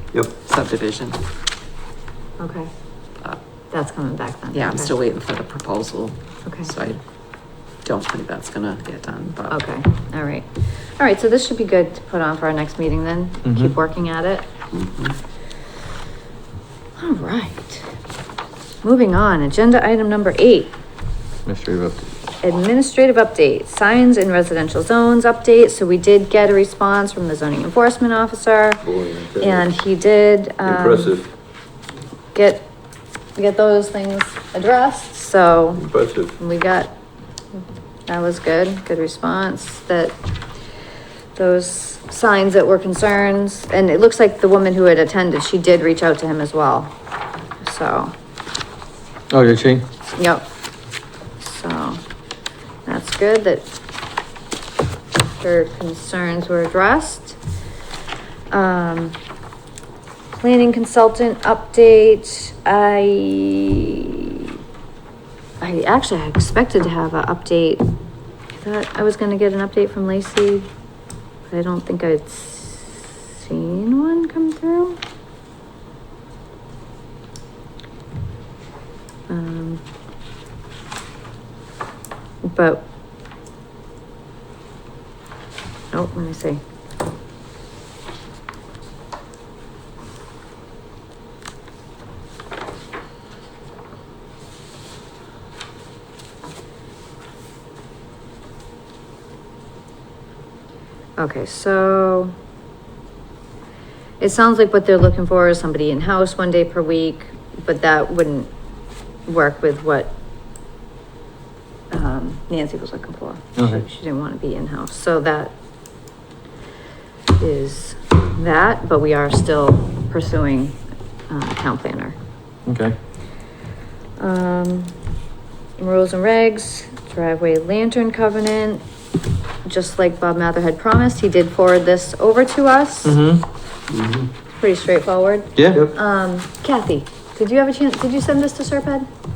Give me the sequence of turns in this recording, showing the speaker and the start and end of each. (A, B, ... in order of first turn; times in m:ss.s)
0:00.4-0:01.2 A
0:02.4-0:02.7 B
0:03.7-0:05.0 B
0:04.5-0:07.0 A
0:06.4-0:06.7 B
0:07.8-0:09.6 A
0:09.5-0:14.5 B
0:13.4-0:13.8 C
0:14.7-0:15.1 A
0:17.0-0:17.9 B
0:18.8-0:20.8 B
0:21.5-0:22.1 C
0:22.4-0:28.8 B
0:28.8-0:29.7 D
0:29.4-0:31.2 B
0:30.6-0:31.3 D
0:32.3-0:32.7 B
0:33.4-0:35.9 B
0:35.8-0:36.3 D
0:36.4-0:36.9 B
0:38.1-0:40.2 B
0:41.4-0:46.9 B
0:47.6-0:48.1 B
0:49.3-0:49.8 C
0:50.2-0:50.4 B
0:51.4-0:52.0 B
0:52.9-0:53.7 B
0:55.4-0:57.4 B
0:58.5-0:59.2 B
1:00.3-1:04.6 B
1:05.6-1:07.8 B
1:08.5-1:10.7 B
1:11.5-1:15.0 B
1:19.3-1:19.8 B
1:22.4-1:22.8 B
1:25.9-1:26.6 B
1:41.2-1:42.3 B
1:44.2-1:48.5 B
1:49.3-1:50.1 B
1:51.9-1:55.6 B
1:53.6-1:53.8 C
1:57.4-2:00.8 B
2:01.3-2:02.2 B
2:02.7-2:03.0 C
2:04.2-2:05.0 B
2:05.8-2:08.8 B
2:09.6-2:13.2 B
2:13.0-2:13.4 C
2:13.9-2:14.3 D
2:14.6-2:19.1 B
2:15.6-2:15.9 C